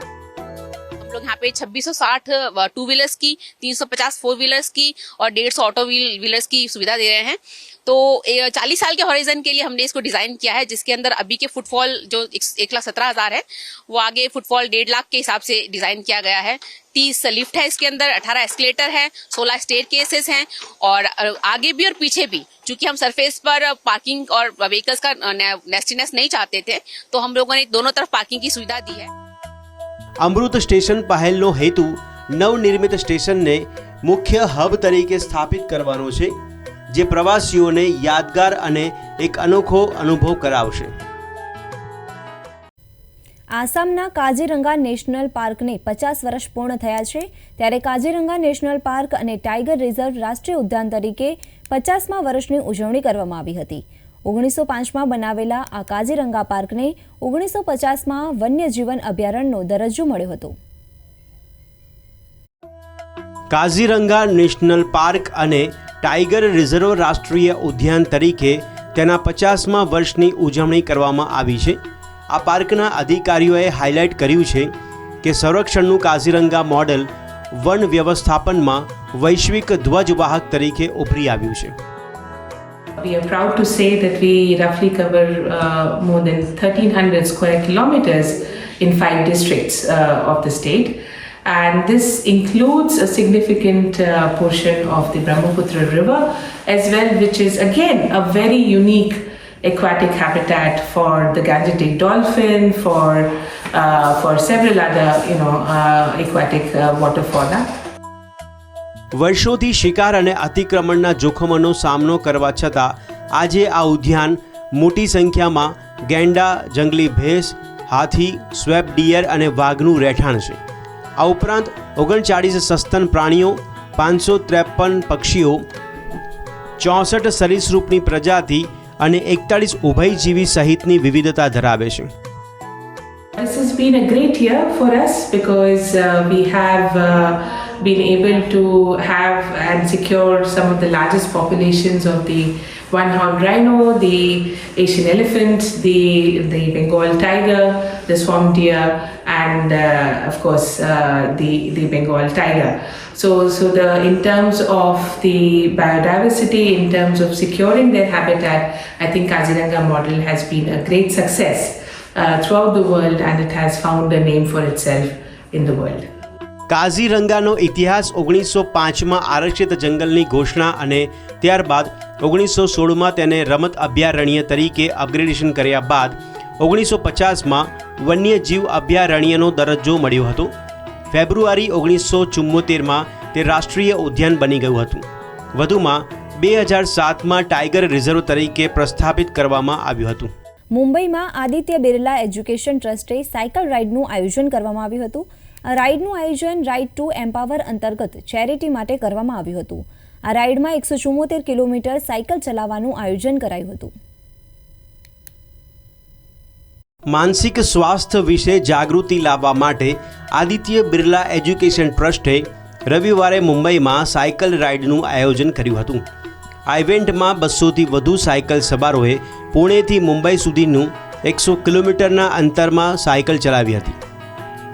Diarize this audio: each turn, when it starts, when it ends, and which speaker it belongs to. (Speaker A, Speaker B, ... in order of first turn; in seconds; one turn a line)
Speaker A: 1.0-29.1
Speaker B: 30.2-36.4
Speaker B: 36.9-40.9
Speaker C: 43.5-60.6
Speaker B: 63.5-81.8
Speaker D: 83.0-107.7
Speaker B: 109.2-120.6
Speaker B: 121.2-125.7
Speaker B: 126.8-132.1
Speaker D: 133.4-166.1
Speaker B: 166.7-180.5
Speaker B: 181.1-190.3
Speaker C: 190.7-203.9
Speaker B: 207.1-216.1
Speaker B: 216.7-224.0